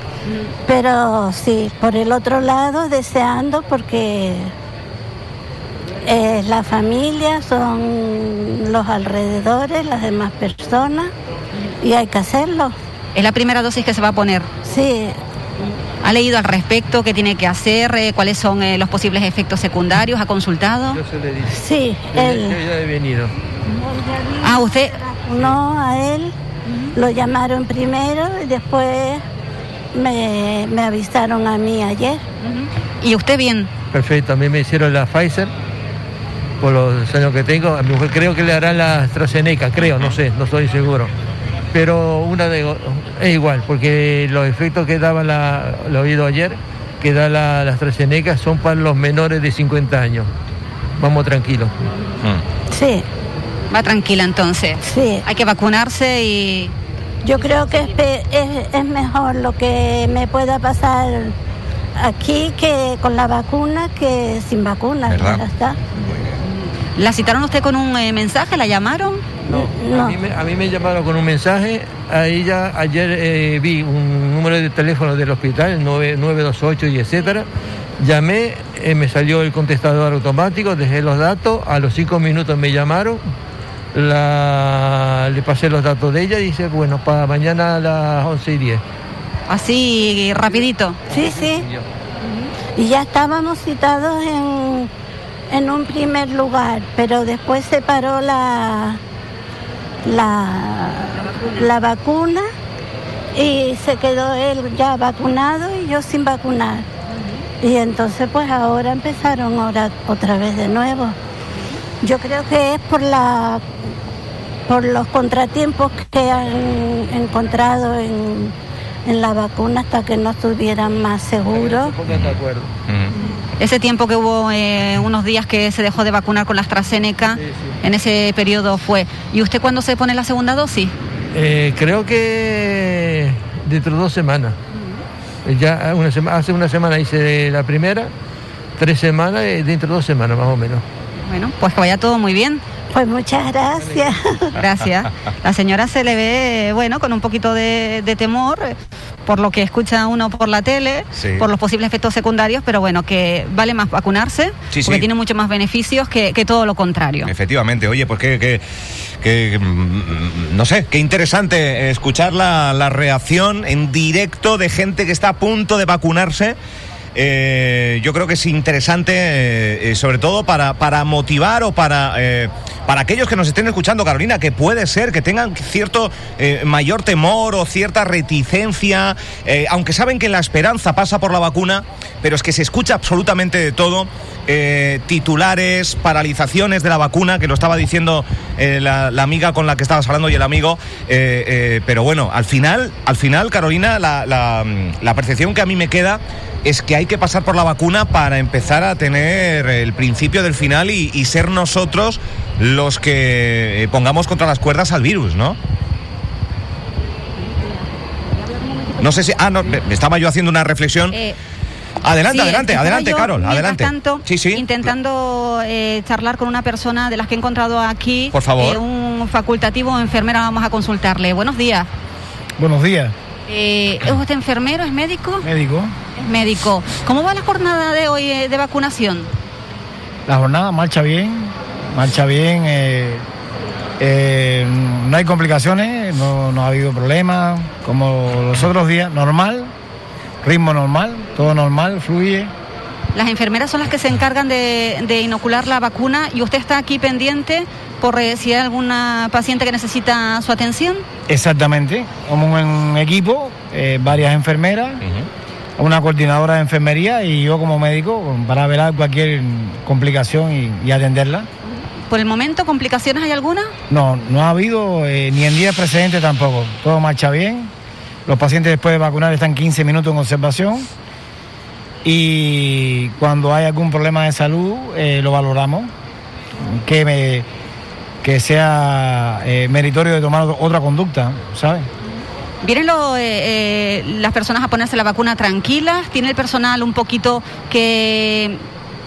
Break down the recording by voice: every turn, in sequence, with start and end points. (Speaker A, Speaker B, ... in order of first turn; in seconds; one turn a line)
Speaker A: 0.7-4.5
Speaker A: 6.0-11.1
Speaker A: 11.8-12.7
Speaker B: 13.1-14.5
Speaker A: 14.6-15.2
Speaker B: 16.0-21.0
Speaker C: 20.9-23.3
Speaker A: 21.5-22.6
Speaker A: 23.7-26.3
Speaker B: 24.4-25.0
Speaker C: 25.3-25.6
Speaker A: 26.9-29.2
Speaker A: 29.9-32.2
Speaker B: 32.4-33.7
Speaker C: 33.9-35.5
Speaker C: 36.6-41.1
Speaker D: 39.8-40.1
Speaker C: 41.7-50.3
Speaker C: 51.0-51.8
Speaker A: 52.7-53.0
Speaker B: 53.7-56.7
Speaker A: 54.8-55.2
Speaker A: 57.2-61.4
Speaker A: 62.0-65.8
Speaker D: 65.1-65.4
Speaker D: 66.0-66.2
Speaker B: 67.0-69.4
Speaker C: 69.5-77.5
Speaker A: 69.5-70.2
Speaker C: 78.0-83.2
Speaker C: 83.9-88.8
Speaker B: 89.5-91.0
Speaker A: 91.1-91.7
Speaker C: 91.1-91.9
Speaker A: 92.8-94.9
Speaker A: 95.5-99.0
Speaker A: 100.0-102.5
Speaker A: 103.3-106.9
Speaker A: 107.6-111.2
Speaker A: 112.0-113.6
Speaker A: 114.7-118.5
Speaker A: 119.0-122.0
Speaker C: 121.5-122.7
Speaker D: 122.1-123.1
Speaker B: 123.6-130.9
Speaker C: 127.4-127.7
Speaker C: 131.3-134.6
Speaker C: 135.4-138.1
Speaker C: 138.8-140.8
Speaker B: 141.2-142.6
Speaker A: 142.9-144.6
Speaker C: 143.9-144.1
Speaker B: 144.6-157.3
Speaker D: 151.2-151.5
Speaker D: 154.7-155.1
Speaker D: 157.2-158.6
Speaker D: 159.2-166.6
Speaker D: 167.1-205.6
Speaker D: 209.0-211.2
Speaker D: 212.0-214.7
Speaker B: 212.3-221.9
Speaker D: 218.3-218.8
Speaker E: 222.6-223.1
Speaker B: 223.5-225.5
Speaker E: 225.4-225.9
Speaker B: 226.2-229.3
Speaker E: 230.3-233.2
Speaker E: 234.0-239.7
Speaker E: 240.4-242.5
Speaker B: 243.1-251.0
Speaker E: 251.3-255.0
Speaker E: 255.8-261.5
Speaker B: 261.6-263.7
Speaker E: 263.9-267.7
Speaker E: 268.2-270.9
Speaker E: 272.0-275.9
Speaker E: 276.6-277.5
Speaker E: 278.2-281.9
Speaker B: 282.6-288.6